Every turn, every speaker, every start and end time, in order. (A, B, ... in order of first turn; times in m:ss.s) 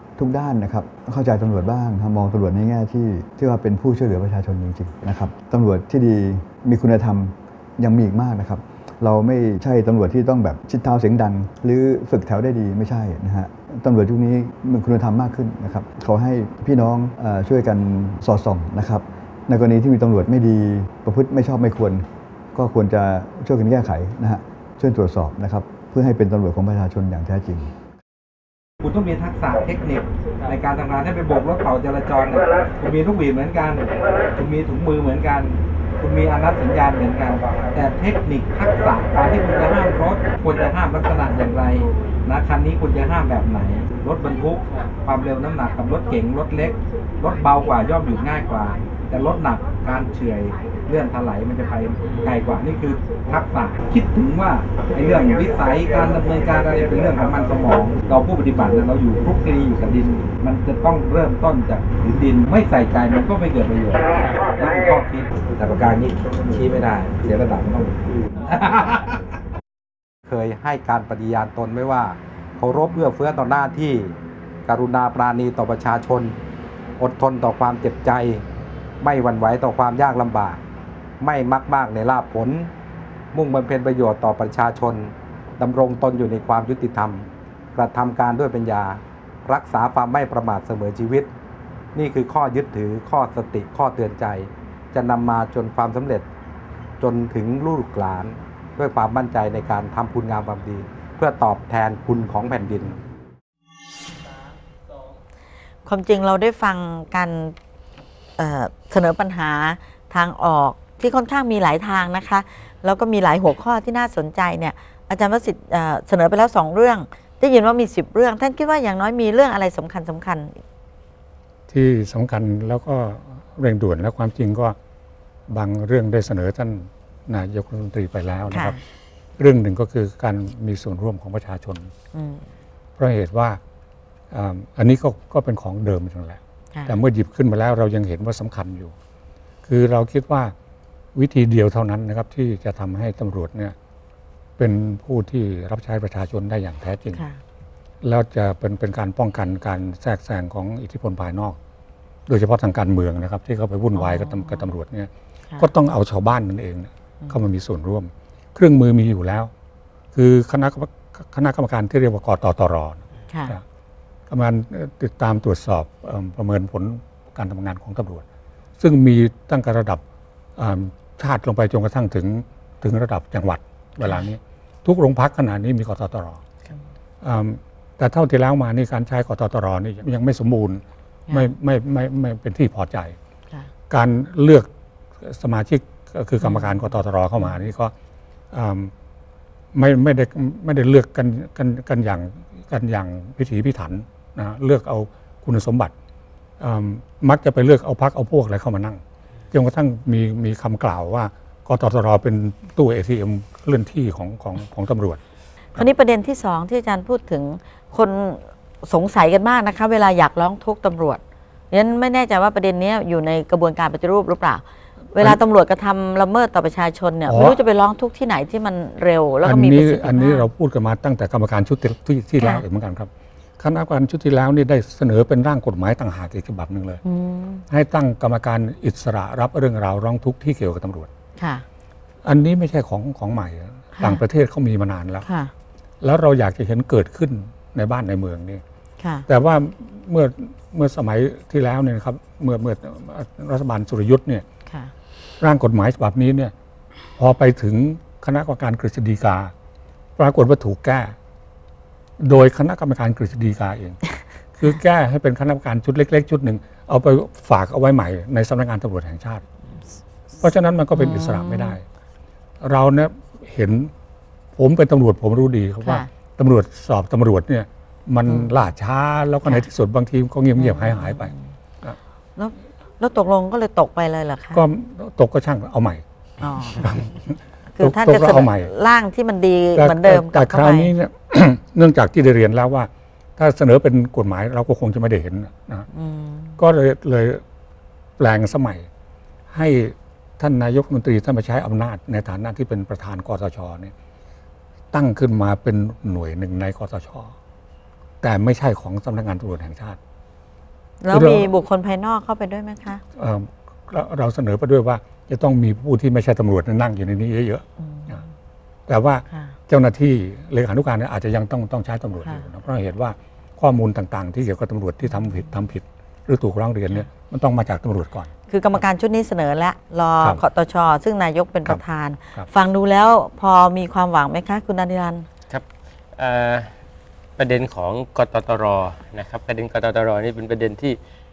0:00.2-0:27.7 A
0:28.8-1:09.3 B
1:10.2-1:14.1 B
1:14.6-1:16.4 B
1:17.0-1:18.4 B
1:19.0-1:20.6 B
1:21.2-1:22.7 B
1:23.3-1:31.3 B
1:31.9-1:36.2 B
1:37.0-1:43.0 B
1:45.8-1:47.5 C
1:48.4-2:00.6 C
2:01.7-2:04.8 D
2:05.5-2:08.8 D
2:08.5-2:08.8 C
2:09.4-2:11.9 D
2:12.1-2:12.4 C
2:13.0-2:13.6 D
2:14.3-2:18.9 D
2:19.6-2:20.5 D
2:21.1-2:23.7 D
2:24.6-2:27.2 D
2:27.1-2:27.4 C
2:28.0-2:31.6 D
2:32.3-2:39.5 D
2:33.9-2:34.7 C
2:40.1-2:43.6 D
2:43.3-2:43.5 C
2:44.3-2:48.2 D
2:48.8-2:50.0 D
2:50.6-2:56.4 D
2:57.2-3:03.2 D
3:03.9-3:04.7 D
3:05.2-3:07.9 D
3:06.4-3:06.8 C
3:08.5-3:08.9 D
3:09.7-3:15.9 D
3:16.6-3:25.2 D
3:25.7-3:34.6 C
3:35.1-3:40.4 C
3:35.1-3:35.4 D
3:37.3-3:37.6 D
3:39.4-3:47.0 D
3:47.0-3:47.6 C
3:47.7-3:51.1 D
3:51.4-3:51.6 C
3:52.2-3:55.2 D
3:54.0-3:54.2 C
3:55.2-3:55.5 C
3:56.0-3:58.6 D
3:59.0-3:59.2 C
3:59.3-4:04.4 D
4:04.7-4:04.9 C
4:05.4-4:06.5 D
4:07.2-4:09.5 D
4:10.2-4:11.1 D
4:12.2-4:14.0 D
4:14.5-4:19.4 D
4:20.4-4:21.8 D
4:20.9-4:21.8 C
4:22.6-4:23.9 D
4:24.6-4:32.0 D
4:25.8-4:26.1 C
4:28.2-4:28.5 C
4:30.6-4:31.4 C
4:32.4-4:34.6 C
4:34.5-4:36.0 D
4:36.4-4:37.0 C
4:36.7-4:38.7 D
4:37.7-4:40.9 C
4:39.8-4:45.9 D
4:45.9-4:46.6 C
4:46.6-4:47.4 D
4:48.2-4:48.9 D
4:49.5-4:53.9 D
4:54.9-4:57.3 D
4:58.2-5:00.0 D
5:01.0-5:03.0 C
5:01.1-5:01.5 D
5:03.2-5:08.2 D
5:07.8-5:08.3 C
5:08.9-5:18.3 D
5:09.3-5:09.6 C
5:12.2-5:12.4 C
5:18.5-5:25.2 C
5:26.2-5:26.7 E
5:27.4-5:31.0 E